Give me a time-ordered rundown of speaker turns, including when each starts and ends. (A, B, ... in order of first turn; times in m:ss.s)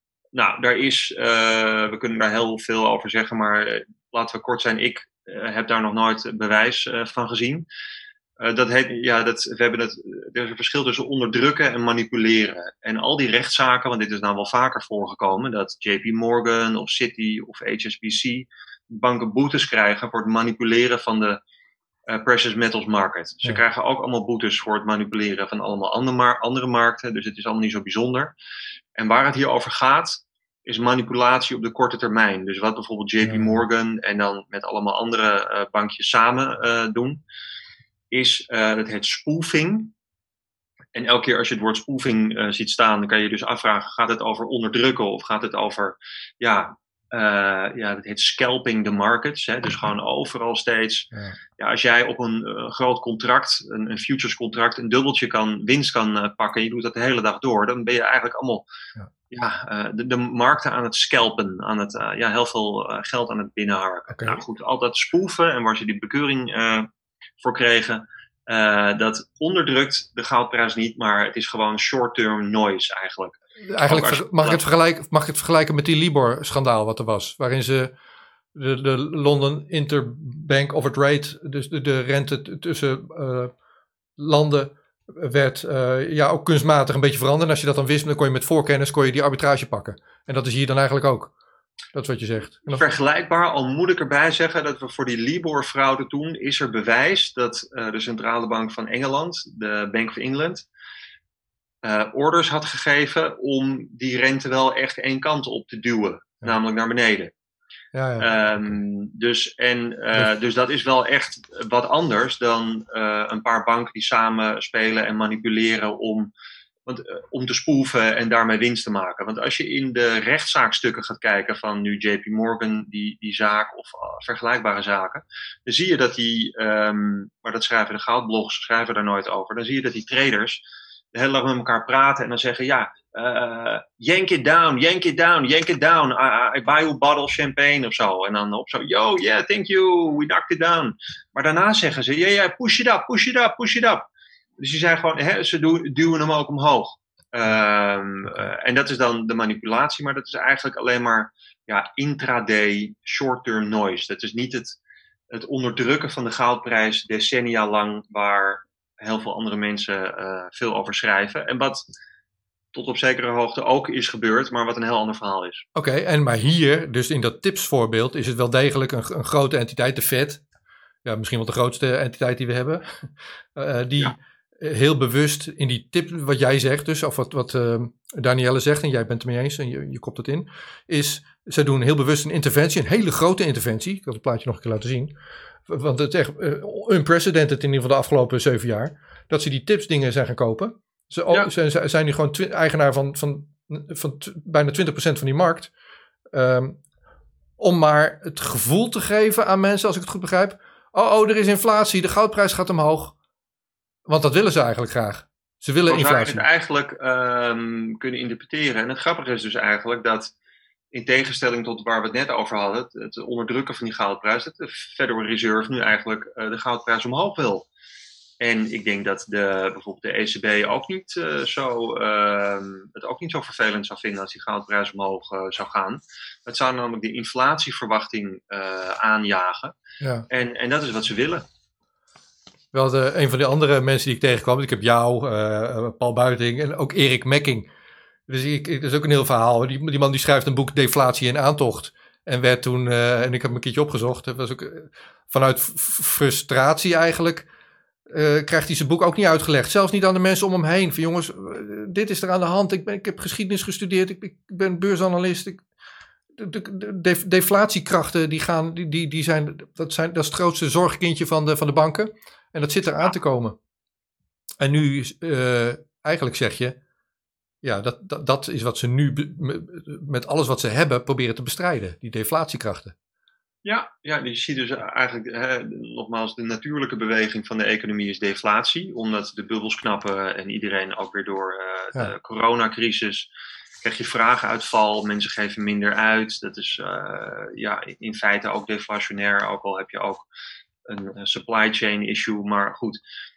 0:00.3-0:07.7 A
0:08.4-0:21.4 A
0:22.1-0:28.3 A
0:29.0-0:37.2 A
0:33.2-0:33.5 B
0:38.1-0:39.9 A
0:40.9-0:58.6 A
0:59.3-1:06.9 A
1:04.1-1:04.4 B
1:07.4-1:14.6 A
1:13.6-1:17.9 B
1:18.5-1:23.5 B
1:24.2-1:31.3 B
1:31.9-1:32.8 B
1:32.7-1:40.6 A
1:41.8-1:47.3 A
1:47.9-1:48.7 B
1:48.2-1:56.3 A
1:56.8-2:10.6 A
2:11.1-2:24.1 A
2:24.6-2:34.8 A
2:35.3-2:41.8 A
2:42.7-2:45.6 A
2:45.7-2:50.4 B
2:51.0-2:52.8 B
2:53.6-3:05.1 B
3:05.7-3:15.7 B
3:16.3-3:16.8 B
3:17.6-3:23.1 B
3:24.1-3:26.4 B
3:25.9-3:30.3 A
3:30.9-3:37.7 A
3:38.4-3:49.7 A
3:50.0-3:50.2 B
3:50.3-3:51.4 A
3:52.7-3:57.7 B
3:58.3-4:07.5 B
4:08.1-4:15.6 B
4:16.4-4:23.5 B
4:24.6-4:26.8 B
4:27.6-4:32.9 B
4:33.6-4:43.3 A
4:43.8-4:50.2 A
4:50.9-4:53.0 A